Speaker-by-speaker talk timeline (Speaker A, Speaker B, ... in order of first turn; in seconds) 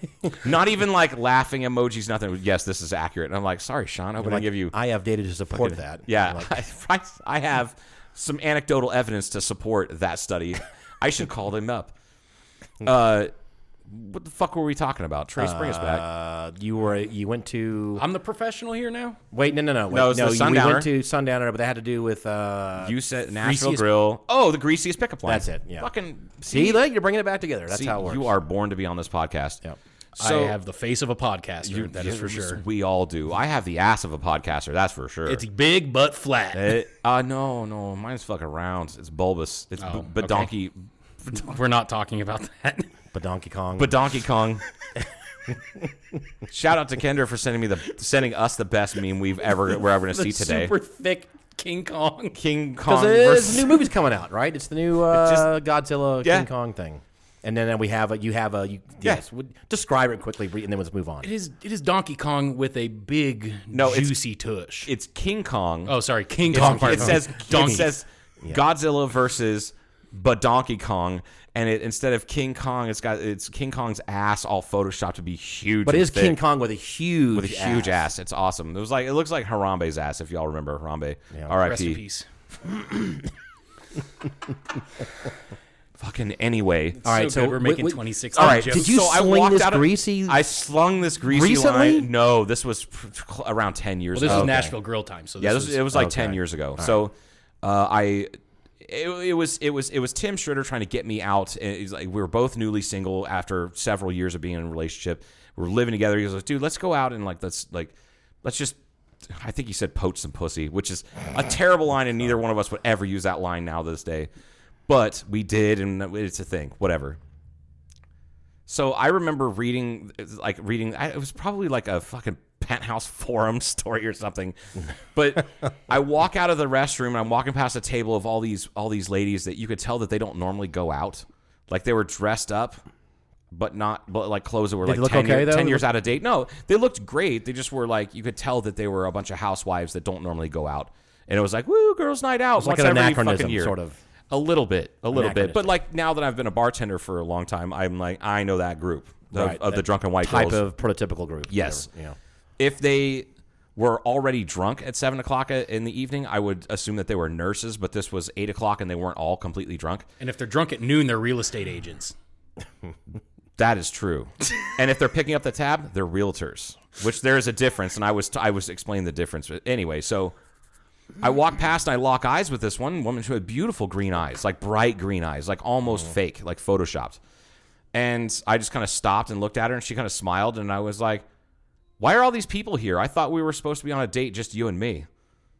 Speaker A: 0.3-4.7, 5.5-11.9, 12.8-13.3, 13.9-16.0, 19.9-20.9, 22.8-26.8, 27.7-29.6, 30.2-30.6, 31.6-35.4, 36.5-41.4, 43.8-44.6, 46.5-50.7, 52.3-53.7, 55.2-55.5, 63.7-64.2, 64.8-65.9, 66.5-76.4, 77.3-82.0, 86.0-87.0, 88.3-94.6, 95.4-114.3, 114.9-117.2, 118.7-124.5, 125.1-132.8, 133.5-143.7, 144.3-150.6, 151.5-151.9, 152.6-160.1, 163.6-170.3, 171.2-177.2, 177.9-181.2, 182.0-185.1
Speaker B: 4.2-6.5, 15.4-18.0, 19.3-22.9, 25.2-25.9, 26.4-28.3, 43.1-43.9, 52.8-61.3, 66.5-67.7, 75.8-78.1, 87.0-90.4, 91.2-92.1, 94.2-94.7, 95.9-96.9, 134.8-135.8, 142.6-144.0, 145.1-145.7, 149.3-152.2
Speaker C: 18.0-19.2, 23.4-23.8, 30.2-32.6, 35.3-36.8, 39.8-40.5, 41.3-42.9, 50.1-52.4, 61.2-64.9, 65.9-67.9, 81.5-82.2, 87.0-88.8, 94.1-95.9, 160.2-162.1